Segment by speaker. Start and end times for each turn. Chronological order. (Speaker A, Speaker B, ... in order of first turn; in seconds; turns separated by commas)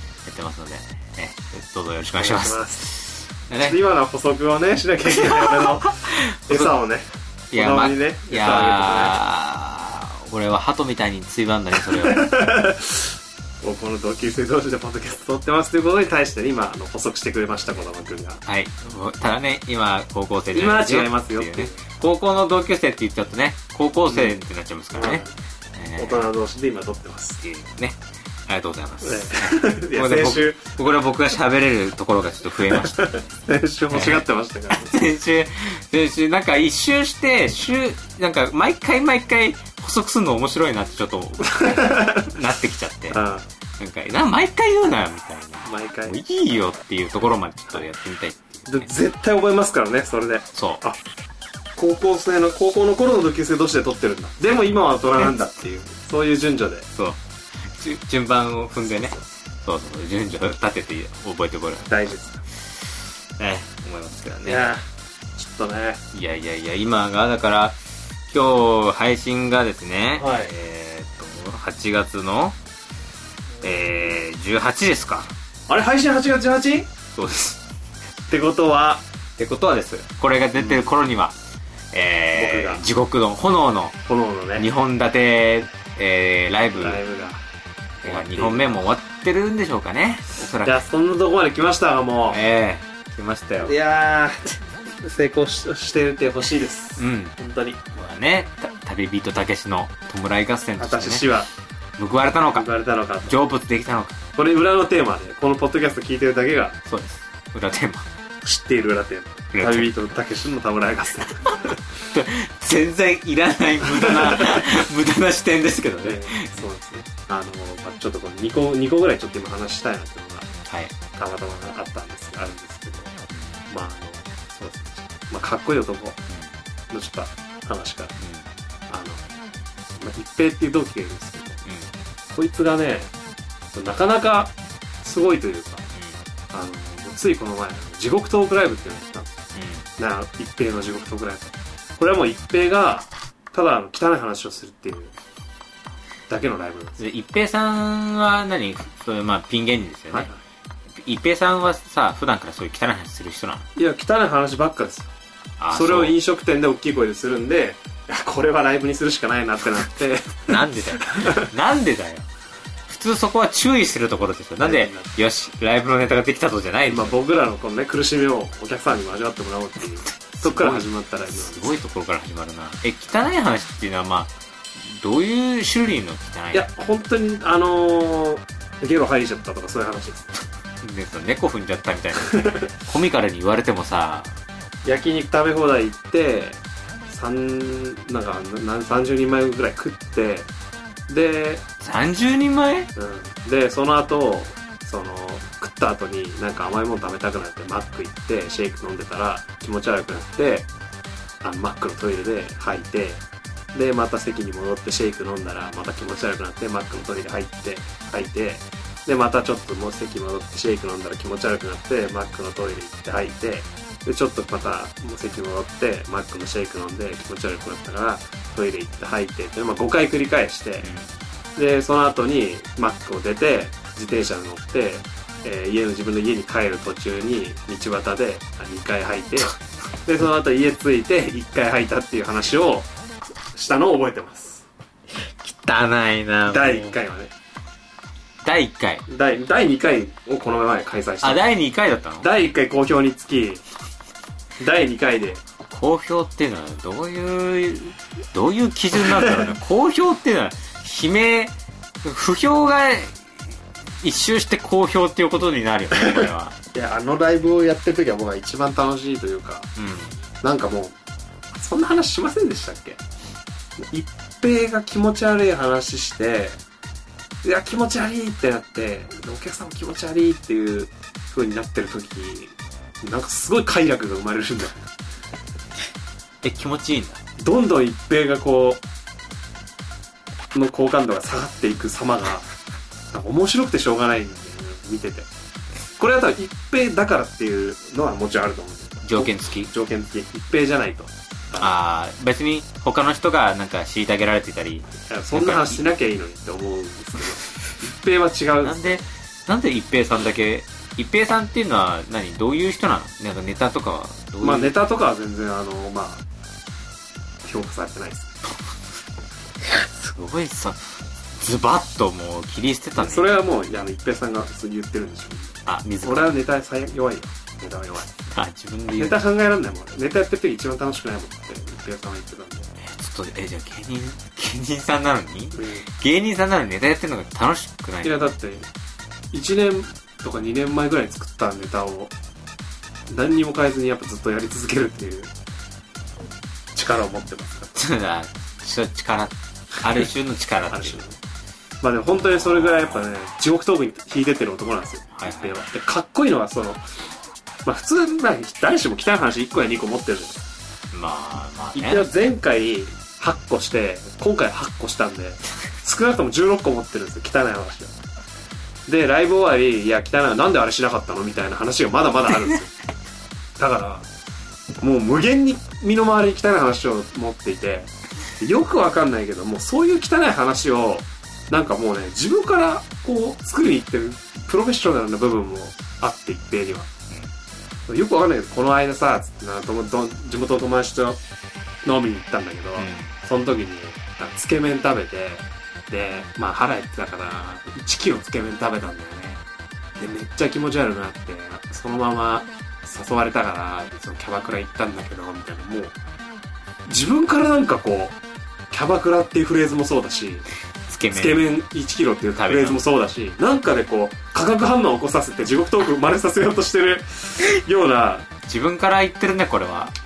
Speaker A: 0.2-3.8, Speaker B: 2.2-2.9, Speaker B: 3.6-9.2, Speaker A: 5.1-6.7, Speaker A: 7.5-12.5, Speaker B: 11.8-18.4, Speaker A: 18.5-25.2, Speaker B: 20.5-21.8, Speaker B: 24.1-24.4, Speaker B: 24.9-25.3, Speaker A: 25.8-26.3, Speaker B: 26.0-27.4, Speaker A: 27.4-33.3, Speaker B: 29.0-30.7, Speaker B: 32.7-35.1, Speaker A: 33.9-43.2, Speaker B: 41.5-42.3, Speaker B: 43.1-43.5, Speaker A: 43.8-48.9, Speaker B: 45.6-46.2, Speaker B: 48.7-51.0, Speaker A: 50.5-50.8, Speaker B: 51.8-56.9, Speaker A: 55.2-55.5, Speaker A: 57.0-61.9, Speaker B: 58.9-59.2, Speaker B: 61.9-62.4, Speaker A: 62.6-64.7, Speaker B: 64.5-64.8, Speaker B: 65.4-66.0, Speaker A: 66.1-67.8, Speaker A: 68.3-72.6, Speaker B: 70.2-70.5, Speaker A: 73.6-75.3, Speaker B: 75.7-76.9, Speaker A: 77.2-77.6, Speaker B: 78.3-79.0, Speaker A: 79.4-81.4, Speaker B: 80.6-80.9, Speaker A: 81.9-84.0, Speaker B: 82.3-82.8, Speaker B: 84.1-84.7, Speaker A: 84.6-87.0, Speaker B: 86.8-87.4, Speaker A: 88.0-90.8, Speaker B: 88.0-88.8, Speaker B: 90.6-92.4, Speaker A: 92.3-93.7, Speaker B: 93.6-97.8, Speaker A: 97.0-97.4, Speaker A: 97.9-101.3, Speaker B: 100.8-101.5, Speaker A: 102.0-102.7, Speaker B: 102.5-103.4, Speaker A: 103.3-104.2, Speaker B: 104.4-106.8, Speaker A: 106.9-108.1, Speaker B: 108.4-111.8, Speaker A: 109.5-110.0, Speaker A: 112.1-116.5, Speaker B: 113.8-114.8, Speaker B: 116.0-120.5, Speaker A: 120.7-120.9, Speaker B: 121.2-123.2, Speaker A: 123.3-123.6, Speaker B: 123.7-126.2, Speaker A: 126.3-126.6, Speaker B: 126.9-128.2, Speaker A: 128.2-128.5, Speaker B: 128.9-129.2, Speaker B: 130.0-131.6, Speaker A: 131.7-131.9, Speaker B: 132.3-133.1, Speaker B: 133.7-135.8, Speaker B: 136.5-139.3, Speaker A: 139.6-139.9, Speaker B: 140.0-145.1, Speaker B: 146.3-147.0, Speaker A: 147.0-150.3, Speaker B: 150.1-150.4, Speaker A: 150.9-153.7, Speaker B: 153.8-155.1, Speaker A: 155.6-156.2, Speaker B: 155.7-161.5, Speaker A: 160.5-162.3, Speaker A: 162.9-167.2, Speaker B: 164.6-165.1, Speaker B: 166.9-171.7, Speaker A: 170.3-176.7, Speaker B: 176.5-180.4, Speaker A: 180.8-184.3, Speaker B: 182.2-182.7, Speaker B: 184.8-190.5, Speaker B: 191.1-191.6, Speaker A: 191.8-192.9, Speaker B: 193.0-200.7, Speaker B: 201.4-203.2, Speaker B: 203.7-220.9, Speaker A: 220.8-221.1, Speaker B: 221.6-232.9, Speaker B: 233.5-234.7, Speaker A: 235.2-237.0, Speaker B: 236.5-237.3, Speaker A: 238.4-239.1, Speaker B: 239.1-241.4, Speaker A: 241.2-242.3, Speaker B: 242.2-243.6, Speaker B: 244.6-245.4, Speaker A: 245.7-253.2, Speaker B: 249.1-249.5, Speaker A: 254.0-256.6, Speaker B: 256.0-259.7, Speaker A: 259.8-260.2, Speaker B: 260.4-260.9, Speaker B: 261.6-263.0, Speaker B: 263.8-266.6, Speaker B: 267.4-274.9, Speaker A: 276.4-277.2, Speaker B: 277.4-278.8, Speaker B: 280.5-282.5, Speaker B: 283.1-285.3, Speaker B: 286.0-291.8, Speaker A: 289.1-289.7, Speaker A: 291.6-295.8, Speaker B: 295.1-299.0, Speaker A: 298.6-304.8, Speaker B: 304.4-306.2, Speaker B: 307.4-308.3, Speaker A: 309.6-313.4, Speaker B: 313.0-318.1, Speaker A: 315.7-316.4, Speaker A: 318.3-319.2, Speaker B: 319.0-322.7, Speaker A: 322.8-328.3, Speaker B: 325.6-325.9, Speaker B: 328.0-328.7, Speaker B: 329.3-332.1, Speaker B: 333.1-335.3, Speaker B: 336.8-337.9, Speaker A: 337.8-341.0, Speaker B: 340.7-341.2, Speaker B: 341.8-346.8, Speaker A: 342.3-343.0, Speaker A: 345.2-345.6, Speaker B: 347.6-350.4, Speaker A: 350.9-352.1, Speaker B: 351.8-357.9, Speaker B: 358.9-362.7, Speaker B: 363.6-364.1, Speaker B: 364.8-376.9, Speaker B: 377.9-381.2, Speaker B: 381.9-389.4, Speaker A: 382.8-383.1, Speaker B: 390.0-395.9, Speaker B: 396.9-398.2, Speaker B: 398.7-400.5, Speaker A: 400.9-401.4, Speaker B: 401.1-408.3, Speaker A: 402.4-402.8, Speaker A: 408.5-409.9